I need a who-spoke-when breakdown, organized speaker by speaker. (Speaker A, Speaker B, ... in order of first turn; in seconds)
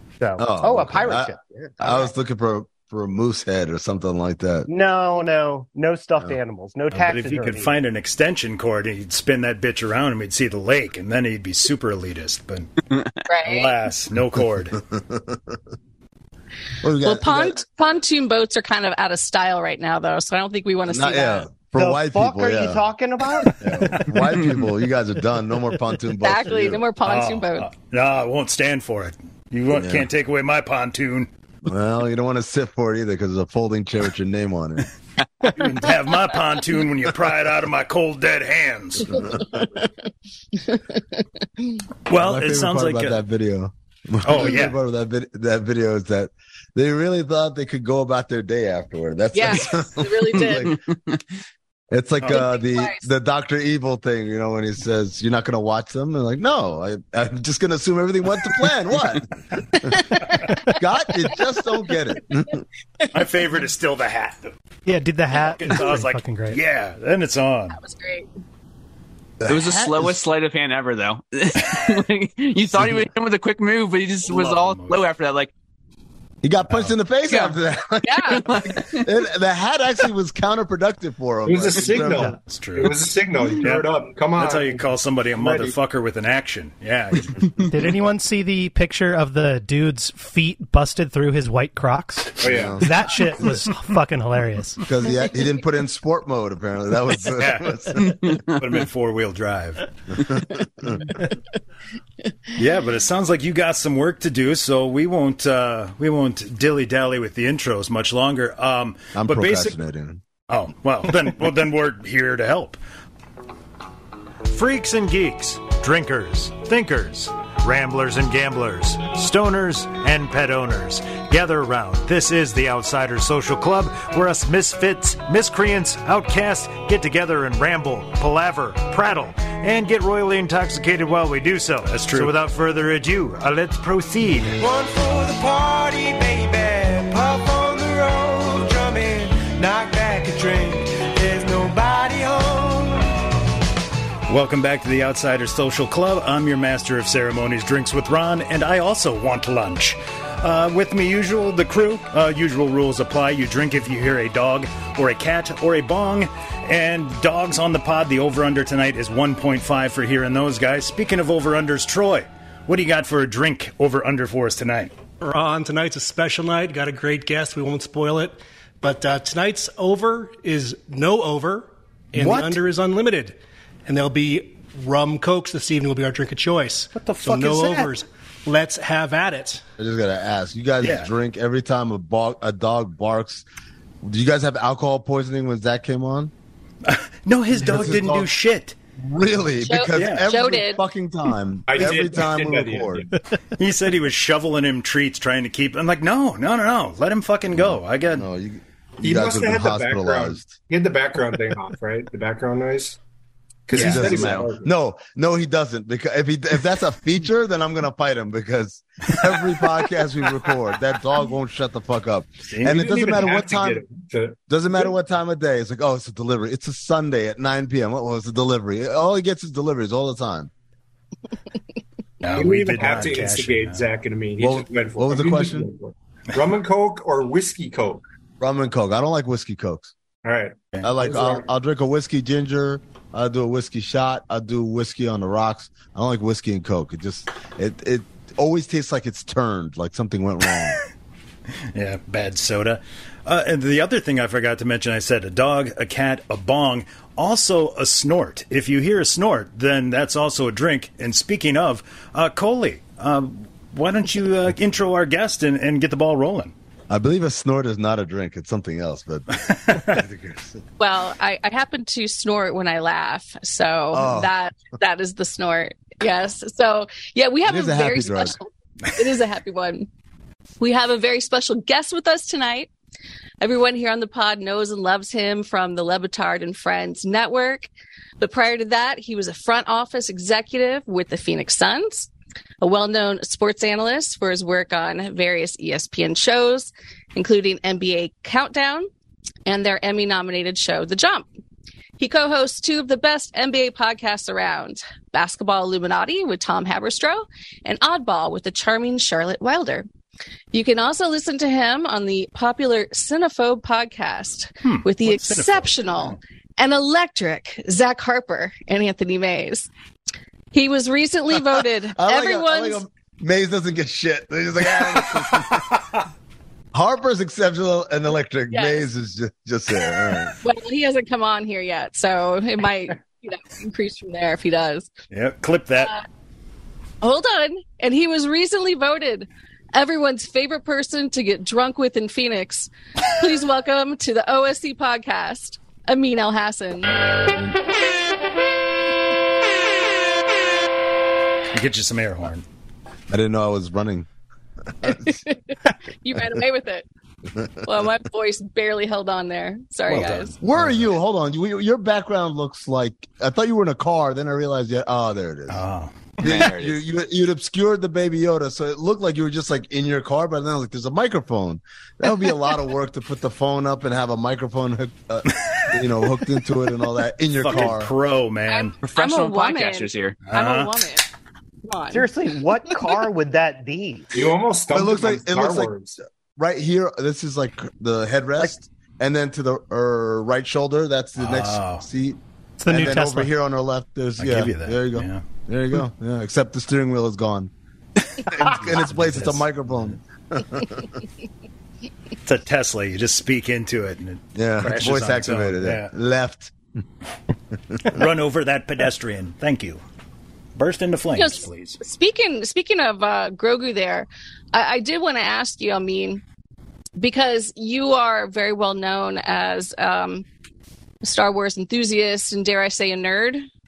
Speaker A: 0.2-2.1, 4.7-7.7, 21.8-23.6, 371.9-374.1
Speaker B: 0.4-4.7, 14.3-15.6, 16.8-17.6, 20.9-22.9, 23.6-26.8, 29.7-30.1, 31.6-34.9, 39.1-39.7, 42.1-50.8, 51.9-60.0, 60.6-62.6, 69.4-70.2, 76.4-82.3, 92.4-92.8, 94.8-98.4, 100.1-101.0, 109.1-110.2, 172.1-172.6, 179.8-183.4, 184.0-186.3, 187.5-188.3, 189.0-193.1, 197.5-200.6, 203.7-213.8, 214.5-220.5, 224.4-225.7, 228.4-229.9, 230.8-240.8, 256.9-260.6, 263.9-264.3, 267.4-268.4, 311.9-315.8, 316.7-320.3, 343.1-344.1, 344.8-345.2, 350.4-355.6, 356.2-367.9, 374.7-375.7, 376.4-387.5, 388.2-391.0, 394.3-396.5, 397.7-398.0
Speaker C: 6.9-12.7, 13.4-14.8, 23.9-24.6, 27.0-31.3, 35.5-39.2, 42.1-43.2, 44.2-44.8, 63.1-64.5, 65.3-67.8, 74.2-75.0, 82.5-82.9, 83.6-87.5, 97.3-99.8, 102.5-109.8, 110.5-112.8, 114.5-134.6, 144.3-164.9, 176.9-177.9, 180.8-181.1, 186.8-188.8, 189.9-190.2, 193.6-198.2, 203.7-204.2, 212.5-212.9, 222.2-223.8, 241.7-256.5, 259.4-260.0, 304.6-306.2, 325.1-325.9, 341.5-342.4, 349.9-350.8, 355.5-356.1, 367.3-368.8, 370.2-370.8, 381.2-381.8, 384.2-385.2, 388.4-390.0, 392.2-395.9, 397.8-399.8, 400.6-401.8
Speaker D: 13.2-13.7, 17.0-21.5, 26.2-27.7, 39.5-39.9, 40.6-41.4, 49.3-50.7, 52.3-53.0, 67.7-68.3, 78.0-78.4, 189.6-190.8, 260.8-269.9, 270.6-272.7, 273.4-282.1, 282.6-288.9, 289.4-291.3, 292.0-299.9, 300.5-309.7, 310.5-312.8, 318.5-318.9, 320.4-324.9, 327.0-336.9, 344.9-346.8, 347.6-350.4, 368.5-371.0, 371.6-372.1, 401.1-406.2, 407.0-410.2, 411.0-413.5
Speaker E: 50.4-50.7, 69.5-75.5, 77.3-77.6, 78.3-79.0, 98.2-98.6, 204.0-204.5, 356.2-356.8, 368.8-370.2
Speaker F: 64.8-66.6, 82.1-82.3, 87.7-94.8, 382.6-383.3
Speaker G: 81.4-85.7, 92.4-92.9, 191.7-193.1, 199.0-203.0, 203.7-204.7, 212.6-214.8, 222.3-228.0, 230.2-231.4, 374.1-375.9
Speaker H: 134.6-143.1
Speaker I: 165.2-179.6